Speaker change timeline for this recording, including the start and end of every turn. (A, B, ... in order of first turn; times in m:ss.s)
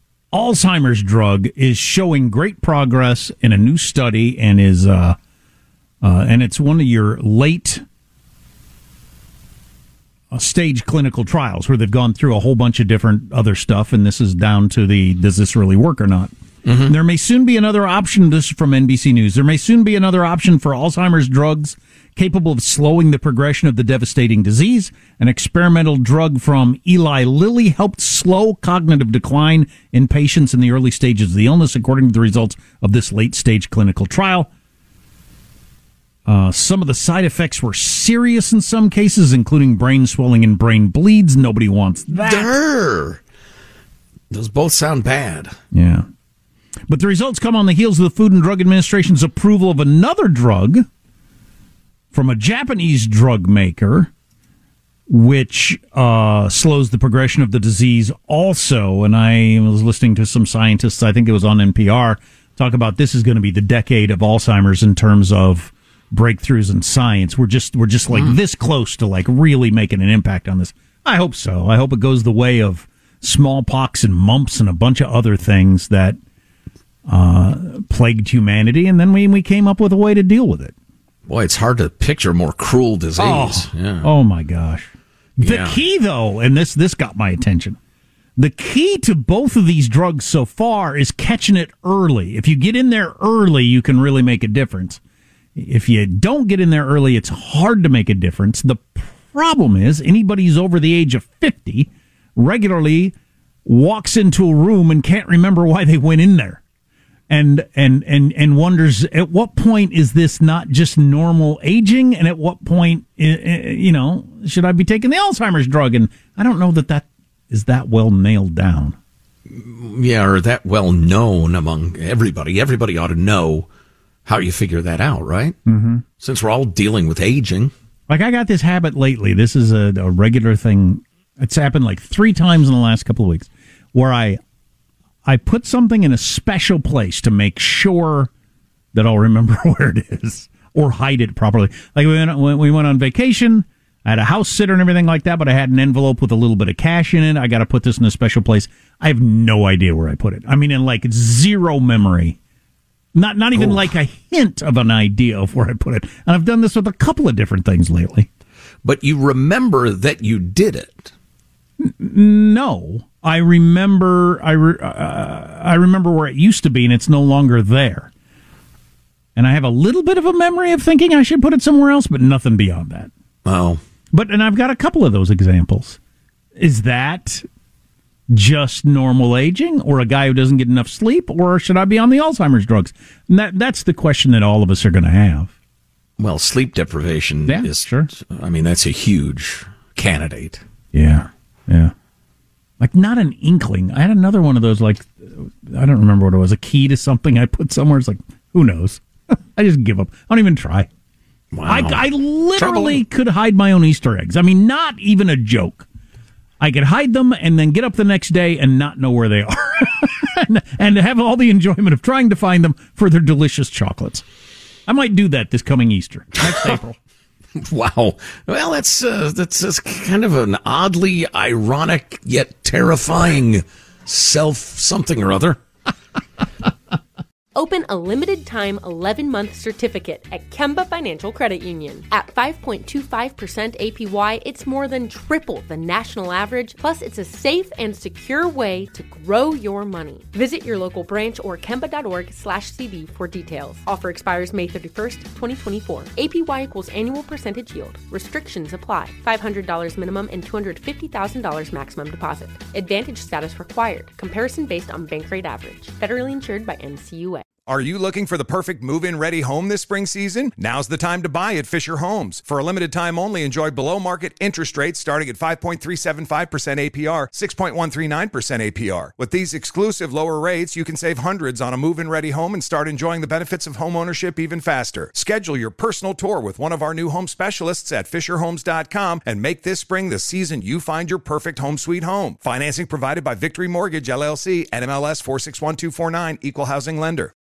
0:00.3-0:05.2 A
0:06.0-0:07.8 A
0:10.3-0:34.5 A
0:16.6-0:16.9 B
0:36.3-0:42.5 A
0:42.1-0:43.2 B
0:44.3-0:45.6 B
0:45.7-0:46.1 A
0:46.9-0:50.9 A
0:52.1-0:54.1 A
0:55.1-1:16.2 A
1:08.1-1:08.4 B
1:17.1-1:20.7 A
1:21.3-1:24.1 B
1:23.2-1:27.8 A
1:25.4-1:25.8 B
1:28.4-1:35.0 A
1:35.6-1:46.6 A
1:47.3-1:59.0 A
1:59.5-2:03.7 B
2:04.2-2:05.6 B
2:05.7-2:06.0 A
2:06.2-2:07.7 B
2:08.1-2:14.4 A
2:15.2-2:18.3 A
2:18.9-2:32.4 A
2:33.1-2:38.3 A
2:33.5-2:33.9 B
2:38.8-2:41.1 B
2:41.8-2:48.1 A
2:49.4-2:53.1 A
2:53.4-2:53.8 B
2:54.1-2:56.0 A
2:56.6-2:57.4 A
2:58.3-3:05.5 A
3:06.2-3:10.6 B
3:07.5-3:08.1 A
3:10.9-3:11.9 A
3:12.8-3:20.9 A
3:21.5-3:23.0 B
3:21.7-3:25.9 A
3:26.6-3:34.2 A
3:34.9-3:37.0 A
3:37.6-3:45.6 B
3:47.6-4:17.4 C
4:17.7-4:47.3 D